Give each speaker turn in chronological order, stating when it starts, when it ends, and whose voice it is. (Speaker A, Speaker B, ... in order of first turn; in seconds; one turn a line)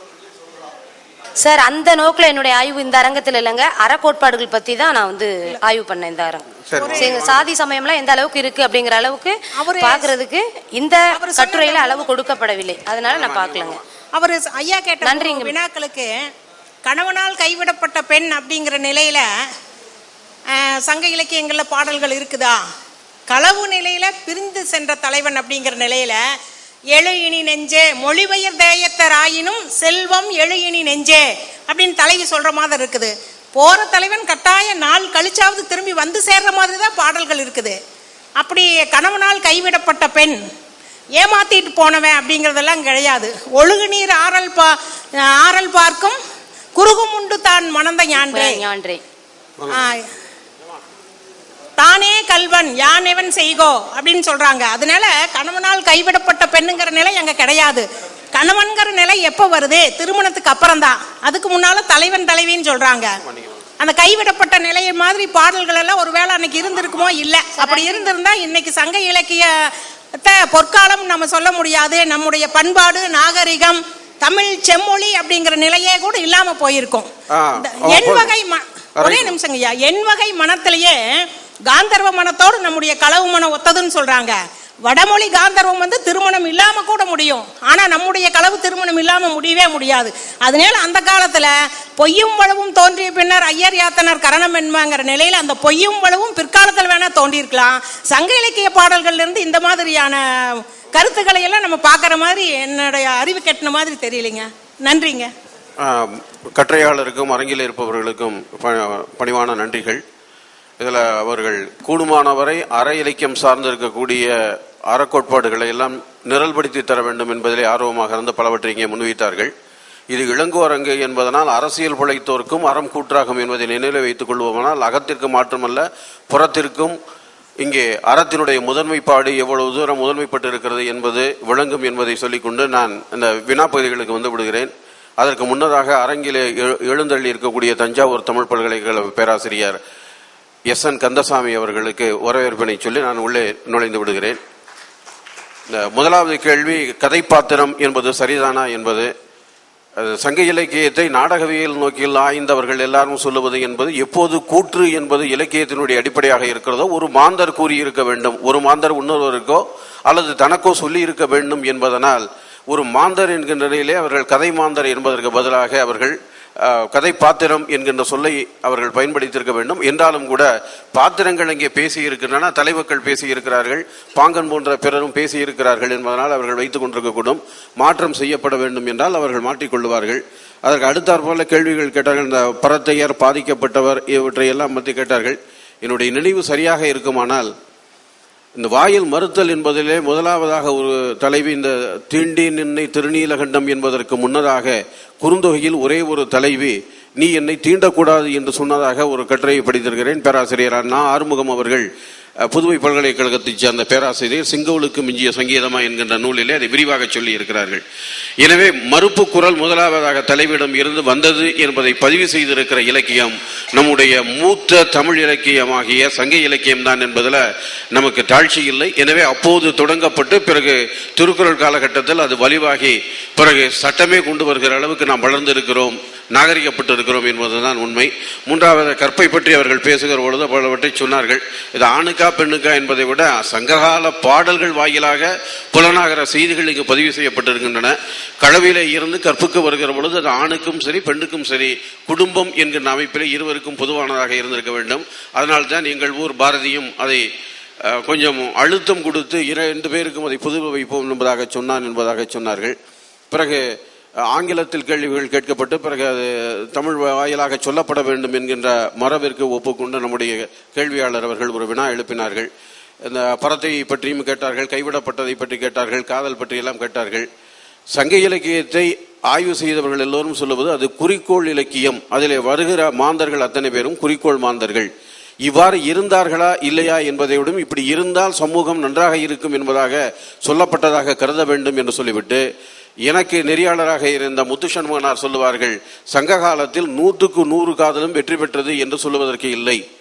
Speaker A: 1.4-13.8
Speaker B: 6.7-7.4
Speaker C: 6.7-7.1
Speaker C: 9.5-10.1
Speaker C: 11.1-12.1
Speaker B: 13.1-13.8
Speaker C: 14.1-16.1
Speaker A: 15.0-15.5
Speaker C: 16.8-19.3
Speaker C: 20.5-22.6
Speaker C: 23.3-26.2
Speaker C: 26.9-37.8
Speaker C: 38.4-40.4
Speaker C: 41.1-46.2
Speaker C: 46.7-48.6
Speaker A: 48.1-49.0
Speaker B: 49.6-49.9
Speaker C: 49.7-50.1
Speaker C: 51.8-63.1
Speaker C: 63.8-105.3
Speaker A: 67.6-68.1
Speaker B: 77.3-78.3
Speaker B: 79.0-79.4
Speaker B: 105.8-110.0
Speaker B: 110.8-114.3
Speaker B: 114.9-119.5
Speaker B: 120.1-127.0
Speaker B: 127.6-139.8
Speaker B: 140.7-144.4
Speaker B: 145.7-149.1
Speaker B: 150.0-187.5
Speaker B: 188.6-201.8
Speaker B: 202.4-207.8
Speaker B: 208.4-217.4
Speaker B: 217.9-247.2
Speaker B: 247.8-252.7
Speaker B: 253.3-253.6
Speaker B: 254.3-262.5
Speaker B: 263.0-267.3
Speaker B: 267.9-274.9
Speaker B: 275.4-282.4
Speaker B: 283.1-289.8